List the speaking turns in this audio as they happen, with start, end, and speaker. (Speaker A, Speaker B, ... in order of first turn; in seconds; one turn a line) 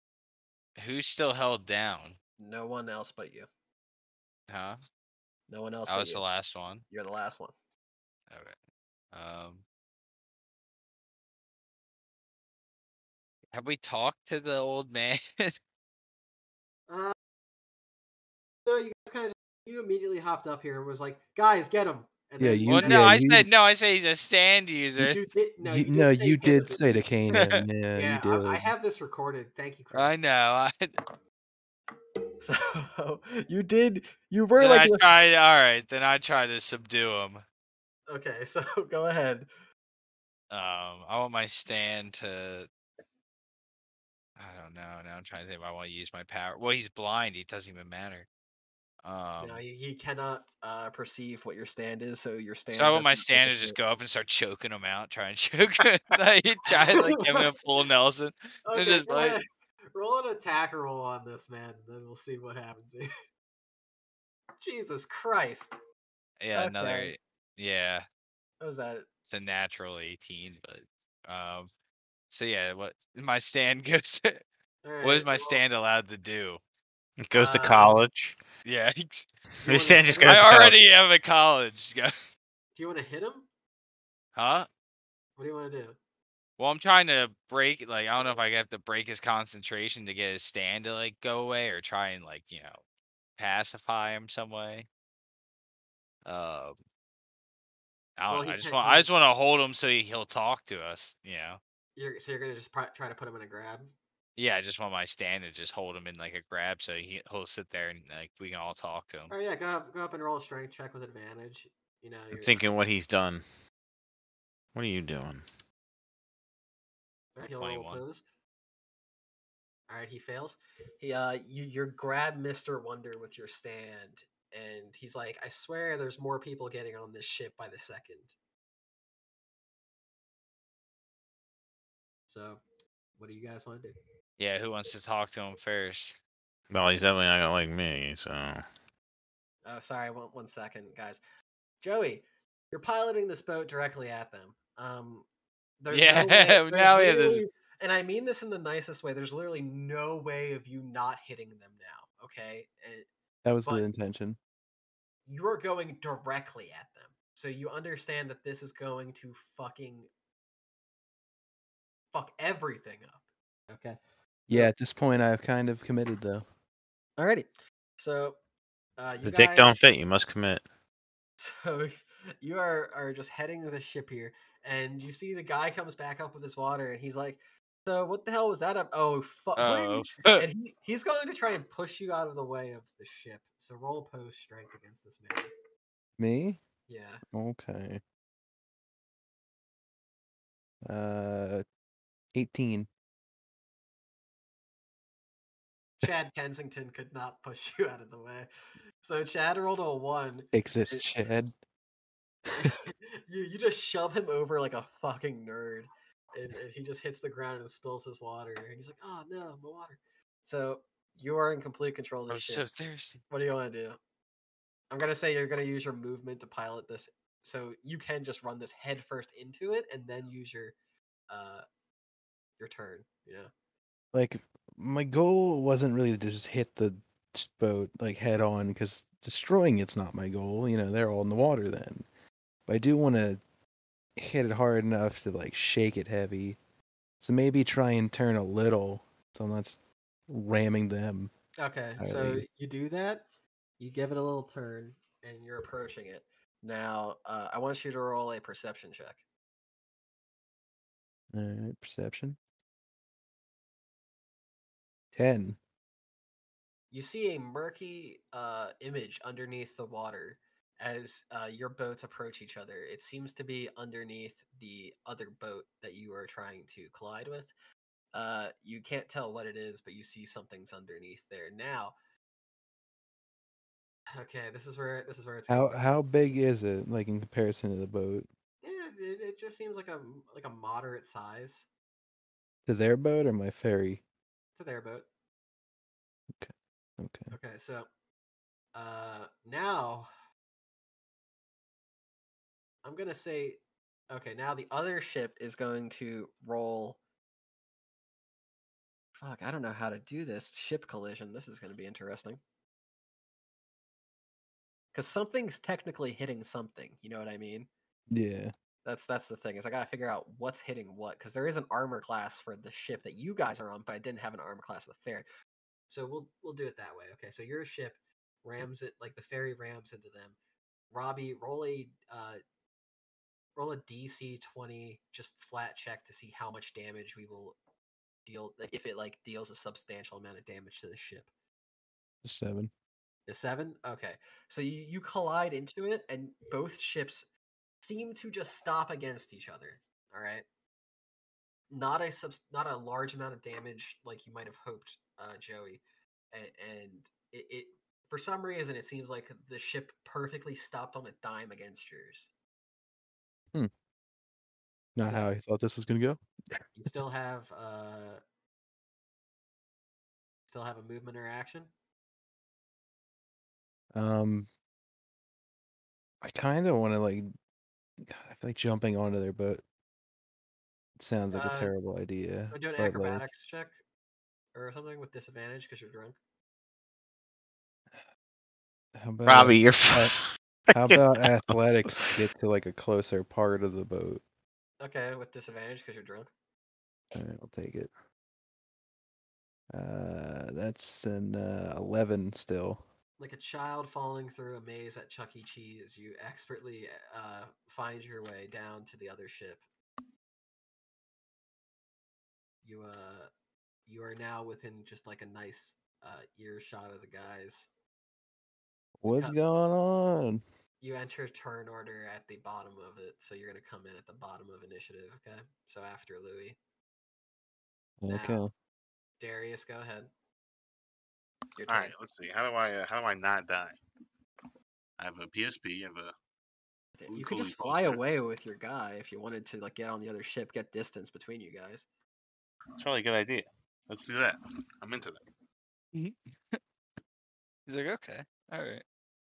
Speaker A: 0.8-2.1
Speaker B: 2.4-3.5
Speaker A: 4.5-4.8
Speaker B: 5.5-6.2
Speaker A: 5.9-6.8
Speaker B: 6.9-7.5
Speaker A: 9.1-9.6
Speaker A: 13.5-15.6
Speaker B: 16.9-17.1
Speaker B: 18.6-23.1
Speaker C: 22.4-23.5
Speaker A: 22.7-25.2
Speaker B: 25.0-30.1
Speaker C: 25.6-28.7
Speaker A: 27.4-27.6
Speaker A: 29.9-30.9
Speaker B: 32.4-35.0
Speaker A: 34.6-37.4
Speaker B: 38.1-39.5
Speaker A: 40.5-42.7
Speaker A: 44.4-48.3
Speaker A: 49.0-49.6
Speaker B: 49.4-53.8
Speaker A: 52.7-59.4
Speaker B: 56.7-57.5
Speaker B: 58.7-63.1
Speaker B: 64.6-65.7
Speaker A: 66.4-68.0
Speaker B: 66.5-67.2
Speaker B: 68.6-69.0
Speaker A: 69.3-71.7
Speaker A: 72.3-74.4
Speaker B: 74.8-75.6
Speaker A: 75.0-76.6
Speaker D: 77.2-78.4
Speaker B: 77.3-78.0
Speaker A: 78.6-79.3
Speaker B: 79.6-80.4
Speaker D: 79.6-80.8
Speaker A: 80.2-82.1
Speaker B: 82.8-83.5
Speaker A: 84.3-84.7
Speaker B: 85.4-86.0
Speaker A: 86.6-92.8
Speaker A: 93.4-94.9
Speaker A: 96.2-96.8
Speaker A: 98.2-101.6
Speaker B: 98.3-99.1
Speaker B: 102.0-103.9
Speaker A: 104.4-109.3
Speaker B: 109.3-112.6
Speaker D: 112.3-113.4
Speaker D: 114.7-115.4
Speaker B: 117.3-118.3
Speaker A: 117.6-118.0
Speaker B: 119.9-128.3
Speaker B: 132.3-132.6
Speaker B: 133.2-133.9
Speaker A: 134.4-136.2
Speaker D: 136.7-138.6
Speaker B: 139.6-141.2
Speaker B: 141.8-145.2
Speaker B: 145.8-153.1
Speaker A: 145.9-147.4
Speaker C: 153.4-154.4
Speaker B: 155.3-160.1
Speaker B: 162.1-164.0
Speaker C: 164.5-166.4
Speaker B: 167.2-167.5
Speaker B: 168.0-168.3
Speaker B: 169.0-169.8
Speaker D: 169.2-170.6
Speaker B: 171.4-185.5
Speaker A: 179.6-180.4
Speaker C: 186.2-186.6
Speaker B: 186.9-187.2
Speaker C: 187.3-188.0
Speaker C: 190.8-191.6
Speaker C: 192.3-192.9
Speaker B: 196.0-198.5
Speaker B: 199.0-201.1
Speaker C: 200.5-201.5
Speaker B: 202.5-212.6
Speaker A: 212.3-213.2
Speaker B: 213.3-214.0
Speaker B: 214.9-220.7
Speaker B: 221.3-221.6
Speaker B: 222.6-223.5
Speaker C: 224.1-232.0
Speaker C: 232.7-233.4
Speaker C: 234.2-236.6
Speaker C: 237.2-239.8
Speaker C: 240.3-241.3
Speaker B: 241.6-243.2
Speaker C: 242.0-242.4
Speaker B: 243.8-249.2
Speaker C: 251.3-252.4
Speaker C: 255.1-255.6
Speaker B: 256.9-267.5
Speaker B: 268.1-271.9
Speaker B: 274.1-275.9
Speaker C: 275.5-278.3
Speaker B: 278.6-281.7
Speaker C: 282.6-284.0
Speaker B: 284.6-285.1
Speaker C: 286.3-287.3
Speaker B: 287.3-287.9
Speaker B: 288.7-290.1
Speaker B: 292.8-293.6
Speaker B: 294.1-297.0
Speaker B: 299.1-302.4
Speaker B: 304.9-307.7
Speaker C: 308.1-308.5
Speaker B: 308.8-315.2
Speaker B: 315.9-320.4
Speaker B: 320.9-322.4
Speaker B: 323.6-327.6
Speaker B: 328.2-331.3
Speaker C: 332.2-332.7
Speaker B: 333.3-337.3
Speaker B: 337.8-340.4
Speaker B: 341.7-345.8
Speaker B: 346.3-352.3
Speaker C: 354.9-356.6
Speaker B: 355.0-355.3
Speaker B: 356.7-358.2
Speaker B: 360.5-361.7
Speaker C: 363.9-364.5
Speaker C: 366.2-367.3
Speaker C: 368.0-369.6
Speaker C: 371.0-373.2
Speaker B: 371.3-371.7
Speaker B: 372.5-373.8
Speaker B: 374.5-376.2
Speaker C: 378.9-380.1
Speaker D: 379.2-382.1
Speaker C: 380.7-384.2
Speaker B: 384.8-386.3
Speaker C: 387.1-387.9
Speaker C: 389.7-392.8
Speaker B: 393.2-399.6
Speaker B: 402.6-403.3
Speaker B: 403.9-407.7
Speaker C: 409.0-410.4
Speaker B: 409.1-409.4
Speaker B: 410.8-416.6
Speaker C: 418.0-418.5
Speaker B: 418.1-418.4
Speaker B: 419.2-420.1
Speaker B: 421.6-421.9
Speaker E: 421.7-423.8
Speaker E: 425.0-426.1
Speaker B: 427.0-431.8
Speaker E: 427.1-428.0
Speaker E: 432.8-435.2
Speaker A: 435.9-436.6
Speaker A: 437.7-438.8